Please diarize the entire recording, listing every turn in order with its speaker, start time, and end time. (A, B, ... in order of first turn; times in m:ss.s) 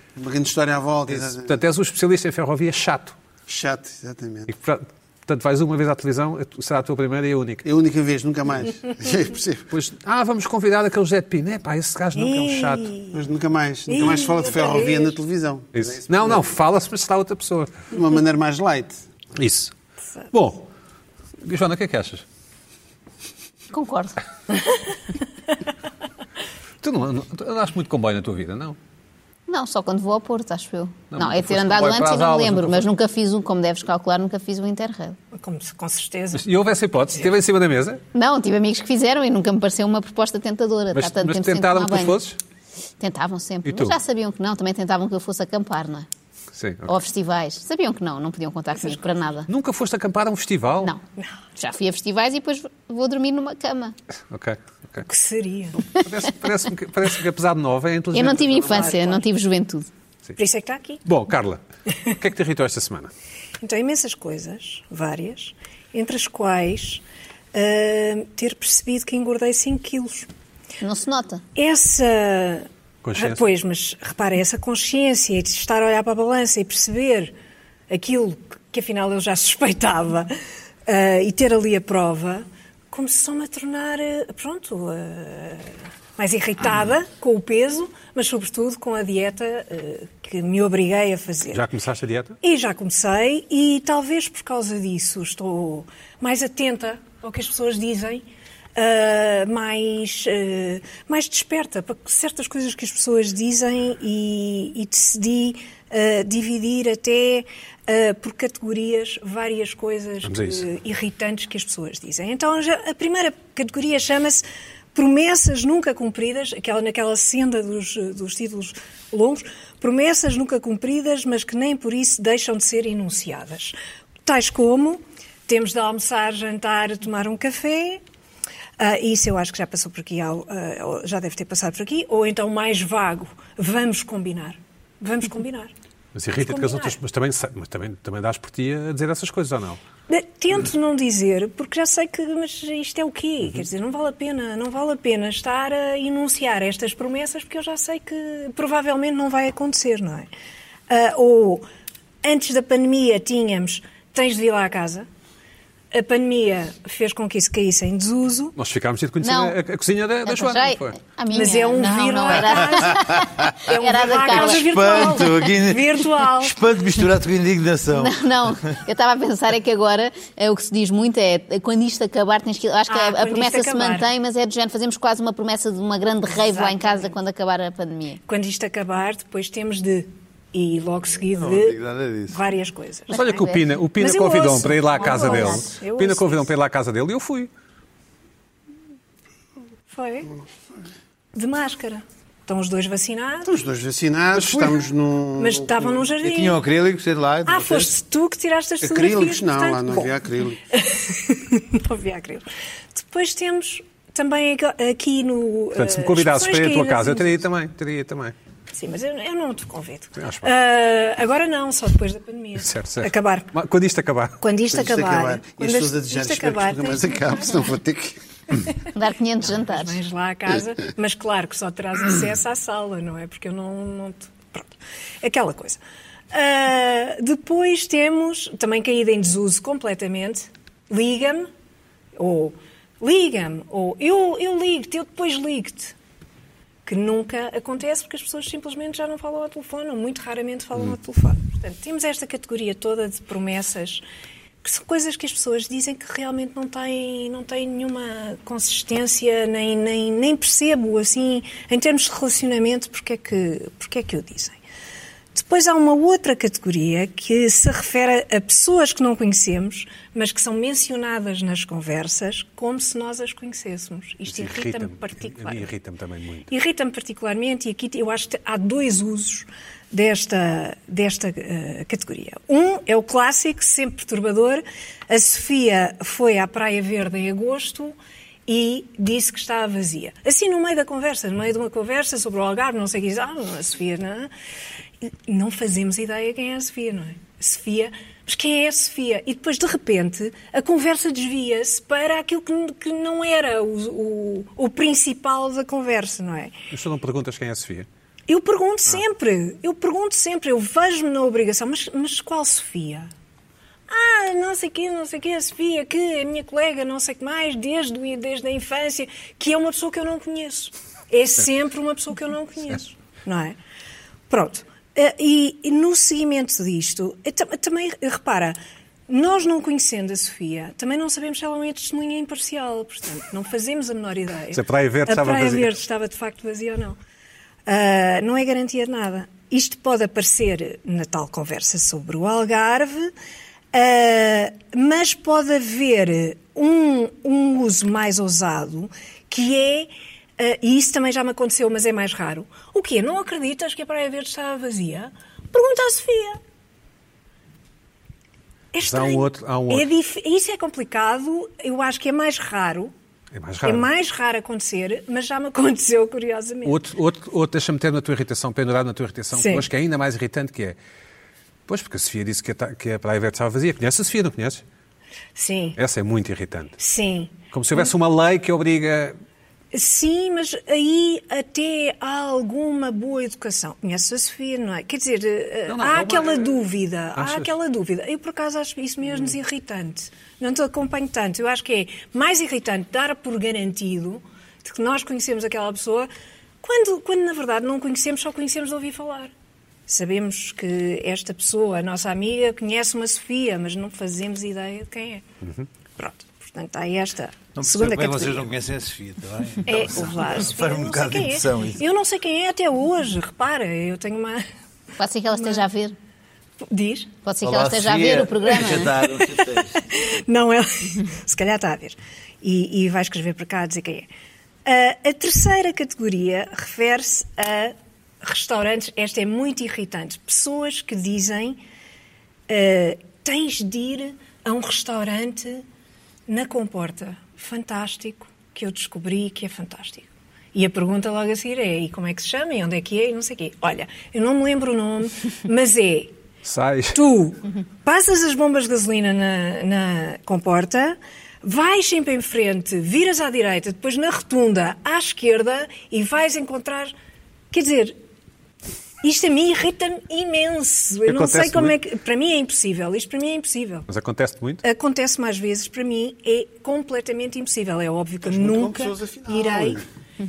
0:00.2-0:01.6 A
0:01.1-0:03.2 B
0:03.5-0:04.5 A
0:04.5-0:07.6 B
0:07.6-0:09.7 A
0:09.7-0:12.9 B
0:12.2-0:13.2 C
0:13.1-0:16.4 A
0:13.9-0:15.2 C
0:15.7-0:17.9 B
0:17.9-0:19.0 A
0:19.4-0:19.7 B
0:20.3-0:20.7 B
0:21.4-0:22.2 B
0:23.7-0:24.2 D
0:26.8-0:28.8 B
0:29.5-0:35.2 D
0:31.1-0:32.9 B
0:35.3-0:36.5 C
0:36.3-0:38.0 B
0:38.1-0:42.2 D
0:40.9-0:42.4 B
0:43.0-0:46.1 D
0:43.6-0:44.0 B
0:46.5-0:47.0 B
0:46.9-0:49.5 D
0:49.5-0:50.9 B
0:51.6-0:54.0 D
0:54.3-0:55.1 B
0:55.1-0:55.8 C
0:55.8-0:59.0 B
0:58.1-0:59.9 D
0:58.6-0:59.2 C
1:00.4-1:01.0 C
1:01.0-1:03.1 B
1:03.6-1:07.0 C
1:07.5-1:10.3 C
1:10.8-1:11.4 D
1:11.6-1:17.3 C
1:13.0-1:13.4 B
1:17.9-1:20.3 C
1:20.9-1:31.6 C
1:31.5-1:32.4 B
1:32.4-1:38.2 C
1:38.8-2:08.0 C
1:50.2-1:50.7 B
2:08.8-2:15.7 C
2:16.2-2:19.8 B
2:16.4-2:17.0 C
2:20.1-2:30.3 C
2:30.9-2:31.6 C
2:32.2-2:35.1 C
2:35.9-2:38.5 C
2:38.6-2:41.0 B
2:39.2-2:39.6 D
2:40.3-2:45.3 D
2:41.3-2:46.5 C
2:42.9-2:43.5 E
2:44.3-2:48.6 E
2:48.0-2:58.2 D
2:52.9-2:54.1 C
2:56.4-2:57.1 C
2:58.3-3:01.8 C
3:01.3-3:02.4 E
3:02.3-3:03.2 C
3:03.1-3:07.5 B
3:03.1-3:03.6 D
3:04.0-3:06.4 C
3:05.0-3:05.7 D
3:09.9-3:10.3 C
3:11.3-3:13.5 C
3:13.5-3:16.0 A
3:14.3-3:14.7 B
3:15.4-3:16.6 C
3:16.2-3:17.9 E
3:17.5-3:20.1 C
3:18.8-3:20.6 A
3:20.7-3:27.4 C
3:25.7-3:28.4 B
3:28.7-3:33.5 C
3:30.2-3:30.5 B
3:32.6-3:34.4 B
3:34.4-3:37.7 C
3:34.7-3:38.2 A
3:38.9-3:40.0 D
3:39.5-3:45.8 C
3:46.3-3:51.5 C
3:52.2-3:56.0 C
3:56.9-4:04.0 C
4:04.6-4:14.6 C
4:15.3-4:25.7 C
4:24.3-4:26.5 B
4:26.5-4:38.0 C
4:38.5-4:44.3 C
4:45.0-4:56.6 C
4:56.7-4:57.9 B
4:58.3-5:03.1 C
5:03.9-5:13.6 C
5:14.3-5:18.6 C
5:19.1-5:27.0 C
5:24.5-5:25.7 B
5:27.7-5:33.1 C
5:33.7-5:46.4 C
5:48.7-5:52.9 C
5:48.8-5:49.9 B
5:53.3-5:53.9 B
5:53.6-5:56.8 C
5:56.6-6:00.8 B
5:59.4-5:59.7 C
6:01.7-6:04.6 B
6:05.4-6:05.8 C
6:05.8-6:06.8 B
6:06.8-6:07.9 C
6:07.5-6:09.2 B
6:09.7-6:26.1 C
6:15.7-6:16.6 B
6:17.2-6:17.5 B
6:26.6-6:29.3 C
6:29.9-6:35.2 C
6:36.0-6:38.4 C
6:37.6-6:41.8 E
6:39.7-6:44.4 C
6:45.0-6:46.0 D
6:45.3-6:45.6 C
6:46.7-6:47.1 C
6:47.2-6:49.0 D
6:47.4-6:49.8 E
6:48.7-6:54.1 C
6:54.6-7:01.6 C
7:02.5-7:05.6 C
7:06.3-7:16.1 C
7:16.4-7:17.0 B
7:16.9-7:26.9 C
7:27.5-7:28.0 C
7:29.0-7:33.9 C
7:31.0-7:31.8 B
7:33.9-7:34.6 B
7:34.6-7:39.8 C
7:38.2-7:39.8 A